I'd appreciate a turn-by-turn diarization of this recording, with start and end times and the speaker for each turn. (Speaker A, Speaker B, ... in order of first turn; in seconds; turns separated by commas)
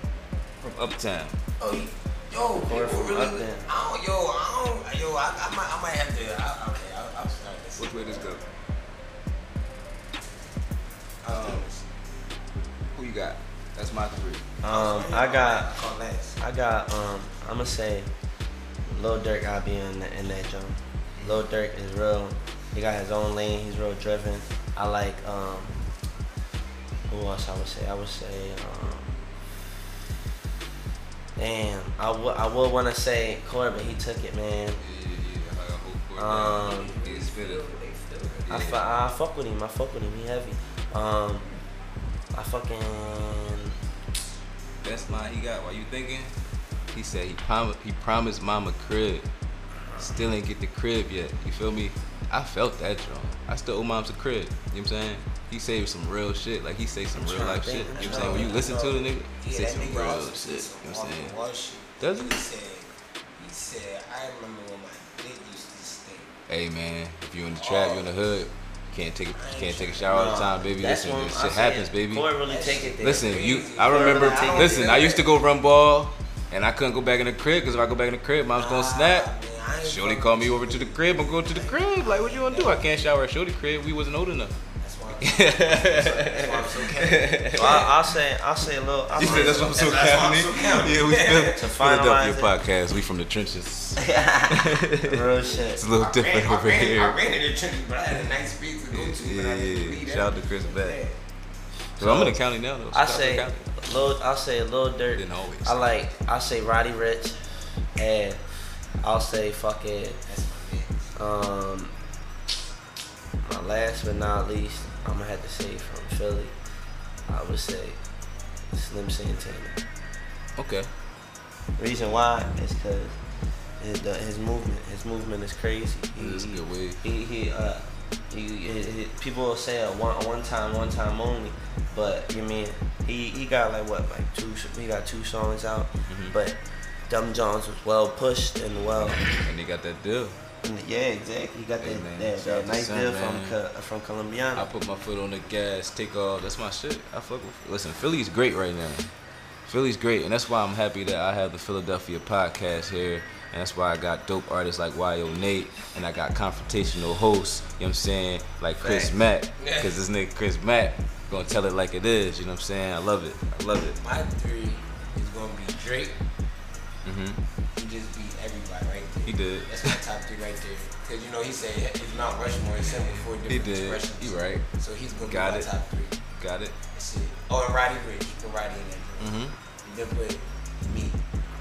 Speaker A: 0.6-1.4, Speaker B: 1.6-8.4, Speaker C: 2.6-3.7, Speaker A: 7.8-8.4, Speaker B: 11.2-11.8, Speaker A: 11.3-11.6, Speaker A: 12.9-14.4, Speaker C: 14.6-15.7, Speaker B: 14.6-16.4, Speaker C: 16.4-18.1, Speaker C: 18.9-25.8, Speaker B: 21.2-21.4, Speaker C: 27.1-29.2, Speaker C: 31.4-34.8, Speaker A: 34.8-37.7, Speaker C: 36.2-37.0, Speaker B: 36.5-38.4, Speaker A: 38.4-38.9, Speaker C: 38.5-41.5, Speaker C: 42.3-43.8, Speaker A: 44.8-46.3, Speaker A: 46.9-49.2, Speaker C: 49.8-50.2, Speaker A: 50.0-61.3, Speaker C: 57.1-58.6, Speaker B: 57.9-66.3, Speaker A: 62.0-62.4, Speaker A: 66.5-72.3, Speaker B: 67.5-68.1, Speaker B: 69.3-70.3, Speaker C: 70.1-73.3, Speaker B: 72.4-75.2, Speaker A: 73.0-79.3, Speaker C: 73.8-74.9, Speaker B: 78.6-83.1, Speaker A: 79.8-84.6, Speaker B: 84.8-87.9, Speaker A: 85.2-87.9, Speaker C: 87.6-89.9, Speaker B: 89.1-91.6, Speaker A: 89.2-97.2, Speaker C: 91.6-92.5, Speaker C: 94.0-95.8, Speaker B: 95.8-101.2, Speaker A: 98.9-101.0, Speaker C: 102.0-102.4, Speaker A: 102.0-103.7, Speaker C: 102.9-108.4, Speaker A: 105.1-106.1, Speaker C: 109.0-110.2, Speaker B: 110.3-111.1, Speaker C: 111.1-111.9, Speaker C: 113.4-116.5, Speaker C: 117.3-118.0, Speaker C: 118.7-119.8, Speaker A: 120.6-120.9, Speaker C: 121.8-123.2, Speaker C: 123.8-139.3, Speaker A: 126.2-127.0, Speaker A: 136.1-136.3, Speaker A: 139.1-140.4, Speaker C: 140.6-144.7, Speaker A: 141.8-143.6, Speaker A: 144.6-149.1, Speaker A: 149.7-164.0, Speaker C: 158.8-159.1, Speaker B: 159.6-160.0, Speaker B: 164.0-166.1, Speaker A: 167.0-167.4, Speaker B: 167.8-176.2, Speaker A: 169.2-170.0, Speaker A: 173.4-174.6, Speaker A: 175.2-175.7, Speaker A: 176.4-176.7, Speaker B: 176.9-181.2, Speaker A: 179.2-179.5